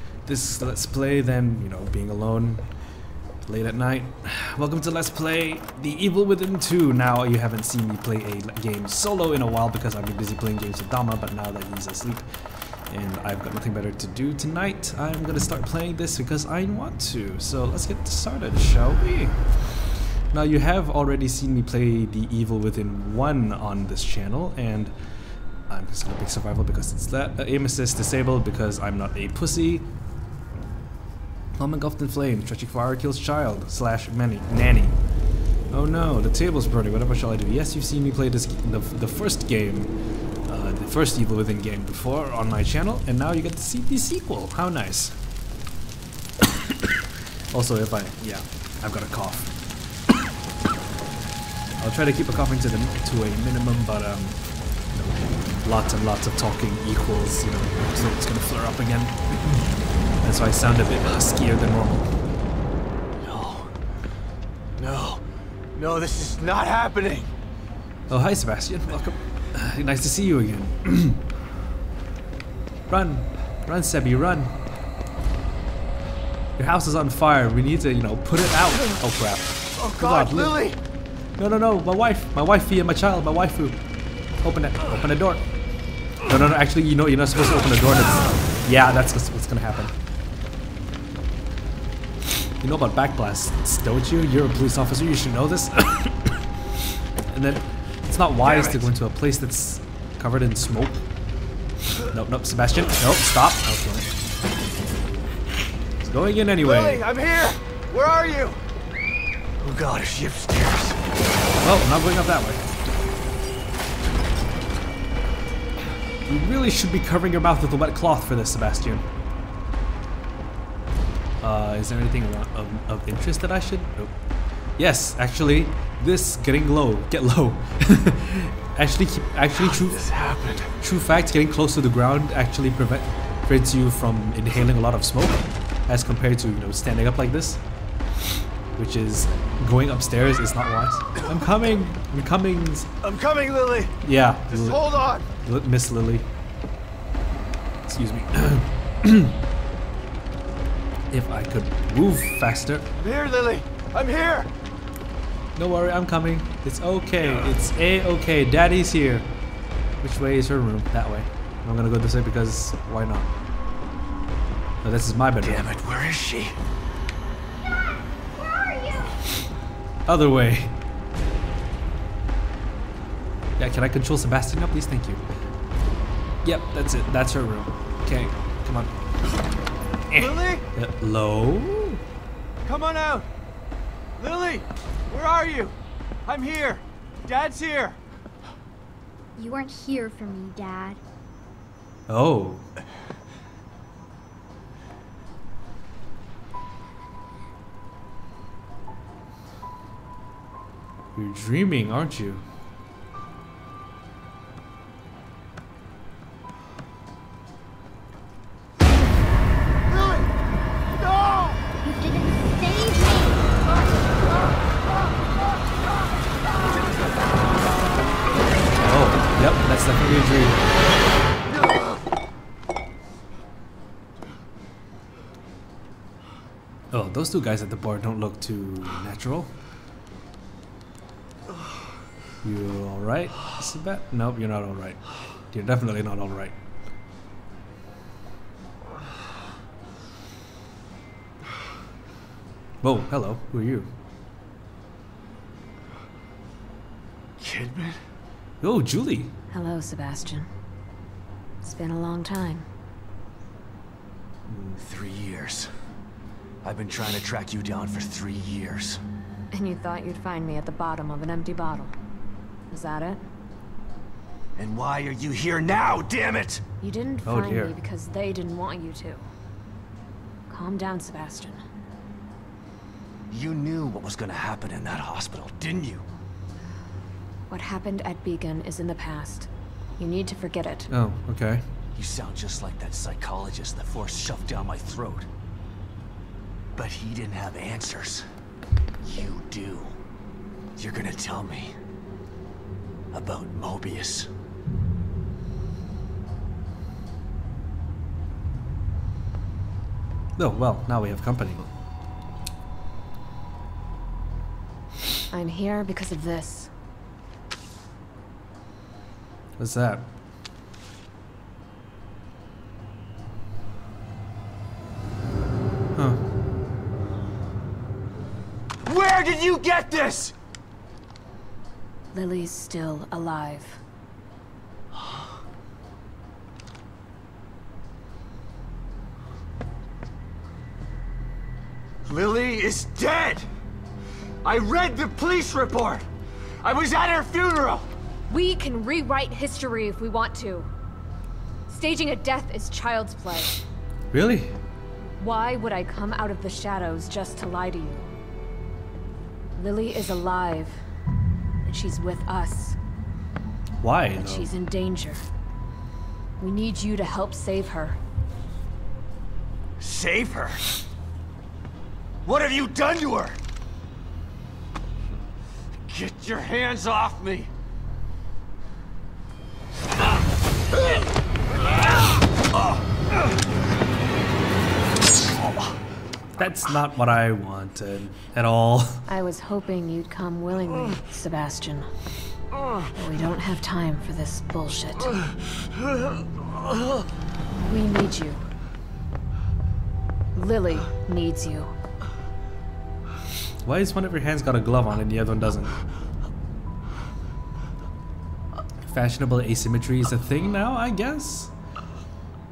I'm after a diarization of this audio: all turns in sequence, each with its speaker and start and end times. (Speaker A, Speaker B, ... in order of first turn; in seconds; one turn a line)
Speaker A: 0.2-2.7
Speaker A: 3.5-12.2
Speaker A: 12.9-19.7
Speaker A: 20.3-24.9
Speaker A: 25.7-29.9
Speaker A: 31.6-35.0
Speaker A: 35.7-39.9
Speaker A: 40.5-45.2
Speaker A: 47.5-49.5
Speaker A: 51.8-54.4
Speaker A: 54.9-59.6
Speaker A: 60.2-62.1
Speaker B: 63.2-63.7
Speaker B: 64.8-65.2
Speaker B: 65.8-67.3
Speaker A: 68.1-71.3
Speaker A: 72.9-74.6
Speaker A: 76.6-80.6
Speaker B: 79.8-80.8
Speaker A: 81.4-83.8
Speaker A: 84.4-85.5
Speaker A: 86.2-89.9
Speaker A: 92.6-96.5
Speaker A: 97.3-101.0
Speaker B: 98.4-98.9
Speaker A: 102.1-104.1
Speaker A: 106.0-107.0
Speaker B: 106.6-108.6
Speaker B: 109.6-111.0
Speaker A: 111.6-112.6
Speaker A: 116.2-119.1
Speaker A: 121.4-124.2
Speaker A: 124.8-130.1
Speaker B: 129.6-130.7
Speaker A: 130.8-137.6
Speaker A: 138.8-142.9
Speaker B: 143.0-143.9
Speaker A: 144.0-146.3
Speaker B: 144.5-145.2
Speaker A: 147.9-149.4
Speaker A: 151.1-152.9
Speaker B: 153.0-154.5
Speaker A: 155.6-159.3
Speaker B: 157.2-157.5
Speaker A: 160.0-163.3
Speaker A: 164.8-165.7
Speaker B: 165.4-166.6
Speaker A: 170.1-170.8
Speaker A: 173.6-175.2
Speaker A: 176.4-178.9
Speaker A: 180.1-182.0
Speaker B: 180.2-180.6
Speaker B: 182.7-183.3
Speaker B: 184.2-185.8
Speaker B: 186.3-188.0
Speaker C: 189.4-191.0
Speaker A: 192.1-192.7
Speaker A: 201.2-202.4
Speaker C: 211.8-213.3
Speaker A: 218.8-220.6
Speaker A: 226.9-229.5
Speaker A: 232.4-236.6
Speaker A: 242.8-243.9
Speaker B: 247.4-248.0
Speaker A: 248.6-249.3
Speaker D: 249.5-250.5
Speaker D: 251.6-252.7
Speaker B: 254.5-255.7
Speaker B: 256.6-259.0
Speaker D: 259.5-262.0
Speaker D: 262.7-263.2
Speaker B: 264.6-266.6
Speaker D: 266.8-269.2
Speaker A: 267.2-267.8
Speaker D: 270.5-271.6
Speaker B: 273.3-276.1
Speaker D: 277.5-280.9
Speaker A: 280.9-281.6
Speaker B: 281.9-285.3
Speaker B: 286.8-288.3
Speaker B: 289.0-290.0
Speaker B: 290.8-291.8
Speaker B: 293.1-294.3
Speaker A: 300.4-301.7
Speaker D: 305.3-306.7
Speaker A: 309.6-310.1
Speaker A: 315.9-316.2
Speaker B: 318.9-320.3
Speaker D: 322.1-323.8
Speaker B: 332.1-333.5
Speaker B: 334.4-336.1
Speaker B: 336.6-337.9
Speaker D: 338.3-340.7
Speaker D: 341.7-343.6
Speaker A: 344.1-344.6
Speaker D: 345.2-348.1
Speaker D: 349.6-350.8
Speaker D: 351.6-352.8
Speaker A: 353.8-354.5
Speaker D: 354.2-355.2
Speaker D: 356.4-358.0
Speaker B: 359.8-360.7
Speaker B: 362.2-363.4
Speaker B: 365.8-367.5
Speaker A: 376.4-379.1
Speaker D: 379.1-381.9
Speaker D: 382.9-385.2
Speaker D: 387.6-388.4
Speaker D: 390.4-391.7
Speaker A: 393.6-395.8
Speaker A: 398.9-401.5